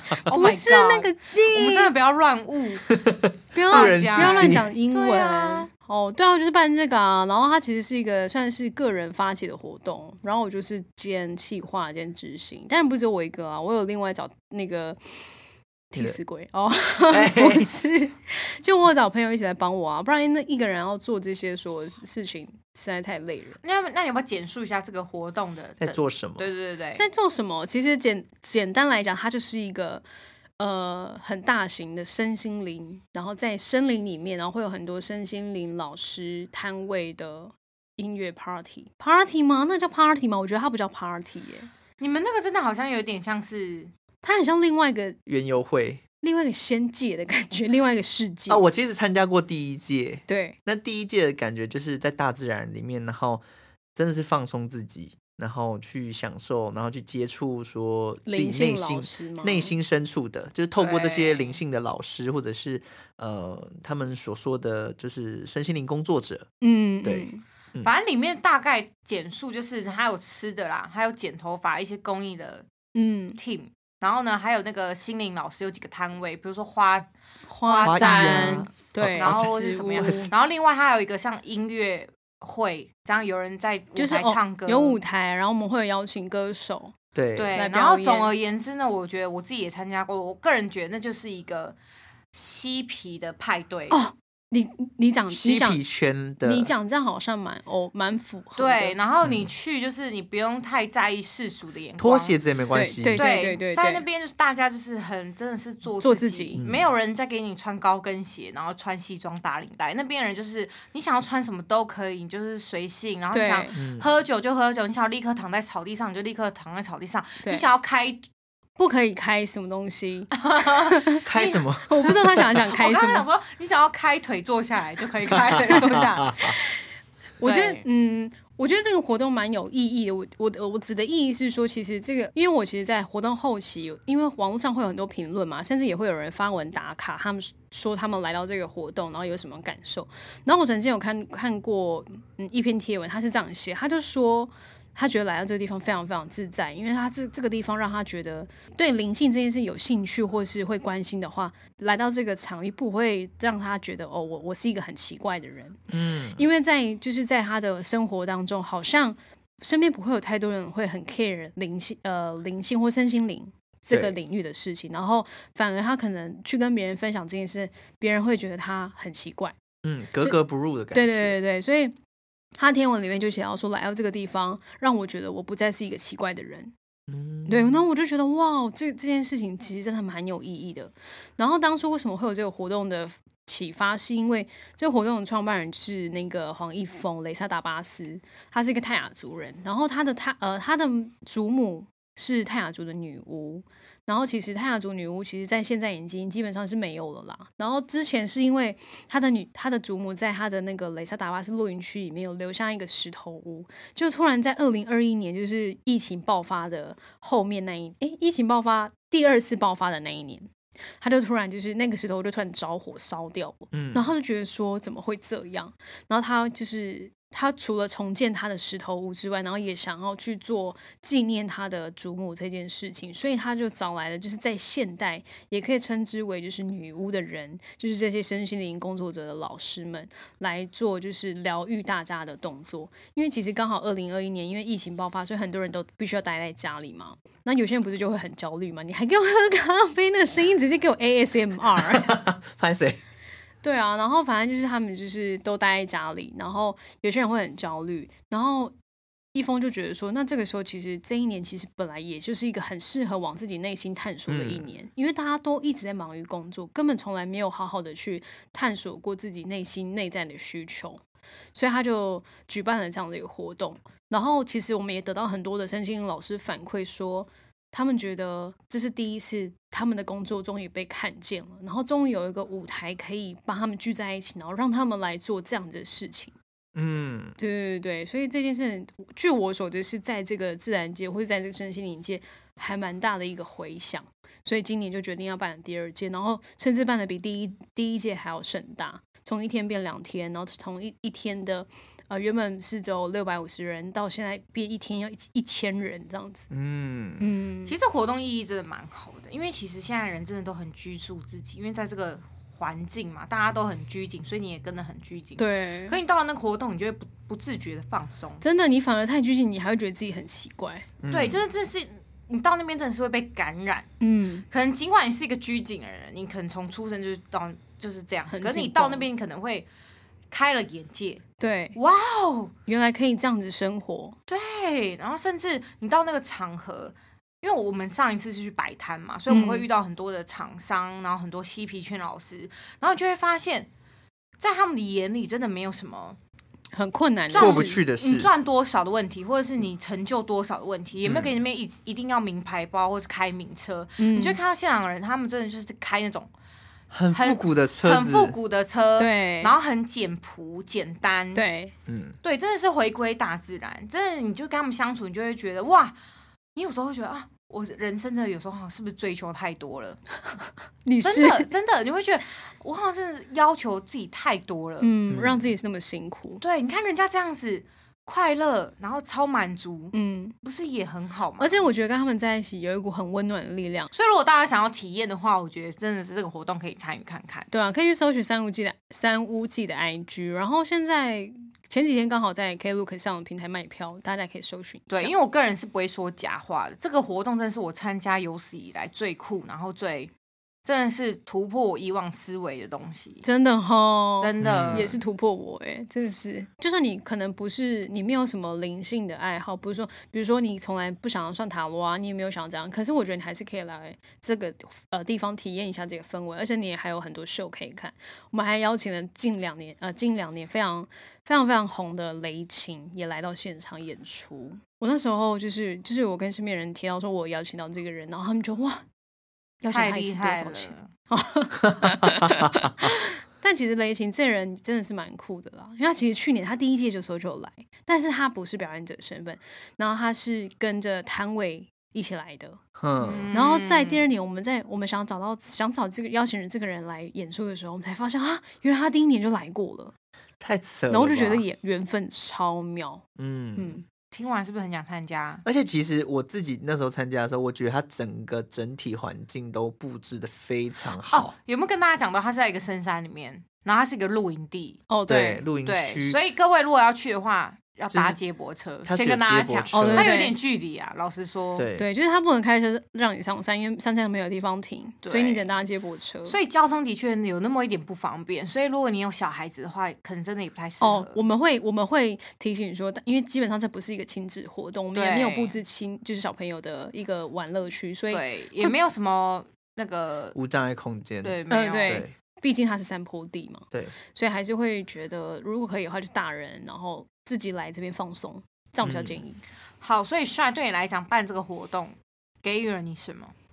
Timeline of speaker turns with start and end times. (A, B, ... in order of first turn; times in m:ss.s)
0:00.2-0:02.9 A
0:00.3-0:01.9 B
0:02.9-0:04.7 C
0:03.5-0:15.0 B
0:03.7-0:05.7 A
0:15.9-0:23.6 B
0:17.1-0:17.7 C
0:23.6-0:27.0 A
0:25.8-0:26.5 C
0:27.0-0:30.0 B
0:30.6-0:41.7 B
0:42.0-0:43.9 A
0:44.2-0:45.2 B
0:45.3-0:46.0 C
0:46.2-0:48.6 B
0:48.5-0:53.4 C
0:50.3-0:50.6 B
0:54.0-1:06.5 C
0:58.3-0:59.7 B
1:00.8-1:01.6 A
1:06.6-1:07.4 B
1:07.0-1:07.9 C
1:07.8-1:12.7 A
1:13.0-1:13.4 B
1:13.4-1:17.1 A
1:17.5-1:20.3 B
1:17.6-1:25.0 A
1:17.8-1:20.3 C
1:24.0-1:27.0 B
1:27.2-1:27.5 C
1:27.4-1:31.8 A
1:27.6-1:28.3 B
1:32.3-1:34.0 A
1:33.9-1:35.8 B
1:35.3-1:36.7 C
1:36.4-1:39.0 B
1:38.6-1:42.4 A
1:39.2-1:39.5 C
1:42.0-1:43.2 C
1:42.7-1:44.0 B
1:43.2-1:58.2 A
1:46.0-1:46.6 B
1:46.6-1:46.9 C
1:53.3-1:53.7 B
1:53.8-1:54.1 C
1:57.4-1:57.7 B
1:58.8-2:03.3 B
2:00.4-2:01.6 A
2:01.3-2:02.5 C
2:02.7-2:06.6 A
2:05.3-2:06.6 C
2:07.4-2:35.8 B
2:07.4-2:07.8 A
2:35.9-2:36.4 C
2:36.4-2:49.6 B
2:43.9-2:44.2 C
2:49.8-2:51.4 C
2:50.9-2:52.0 B
2:52.6-2:56.7 B
2:57.1-2:57.8 C
2:57.5-4:02.2 B
3:33.7-3:34.1 C
4:01.8-4:03.0 C
4:03.6-4:08.7 B
4:09.3-4:21.0 B
4:14.3-4:14.7 C
4:21.6-4:36.4 B
4:36.8-4:37.4 C
4:37.4-4:56.5 B
4:56.5-4:57.3 C
4:57.2-4:57.8 B
4:57.7-5:08.4 A
5:05.4-5:06.0 B
5:08.4-5:10.9 B
5:11.0-5:11.4 C
5:11.1-5:13.9 A
5:14.0-5:14.5 B
5:14.5-5:19.7 A
5:18.3-5:19.1 B
5:20.3-5:21.2 A
5:21.4-5:21.8 B
5:21.8-5:22.5 A
5:22.7-5:24.2 B
5:24.3-5:33.7 A
5:29.3-5:29.7 B
5:34.4-5:36.2 A
5:36.7-5:37.8 B
5:37.3-5:46.3 A
5:37.4-5:38.3 C
5:41.0-5:41.3 C
5:44.0-5:44.4 B
5:46.9-5:48.4 C
5:47.1-5:51.4 A
5:49.0-5:49.5 B
5:51.4-5:51.7 B
5:51.9-5:52.2 C
5:52.2-5:56.0 A
5:56.6-6:00.0 A
6:00.8-6:01.5 B
6:01.0-6:04.9 A
6:04.8-6:06.4 B
6:05.1-6:05.5 C
6:06.4-6:11.7 A
6:09.9-6:10.3 B
6:11.4-6:13.9 B
6:13.9-6:17.5 A
6:17.5-6:25.1 B
6:24.9-6:30.1 A
6:30.6-6:33.2 A
6:33.2-6:58.8 B
6:34.2-6:34.9 A
6:34.4-6:35.0 C
6:59.6-7:12.6 B
6:59.7-7:00.9 A
7:01.8-7:02.5 C
7:12.8-7:13.3 C
7:13.0-7:14.0 A
7:13.3-7:19.9 B
7:20.4-7:21.4 C
7:20.9-7:23.0 B
7:23.2-7:23.8 C
7:23.6-7:23.8 B
7:24.1-7:25.4 A
7:25.4-7:31.3 C
7:31.1-7:34.8 A
7:34.9-7:35.5 B
7:35.1-7:36.2 C
7:35.6-7:41.7 A
7:37.9-7:38.2 C
7:38.9-7:40.2 C
7:39.7-7:40.4 B
7:41.6-7:41.8 C
7:41.8-7:46.4 B
7:45.0-7:45.5 A
7:46.3-7:51.2 A
7:50.8-7:58.7 B
7:54.9-7:55.6 A
7:58.1-8:00.4 A
8:00.4-8:02.1 C
8:01.2-8:02.0 A
8:01.5-8:09.4 B
8:08.8-8:09.2 C
8:09.8-8:13.3 A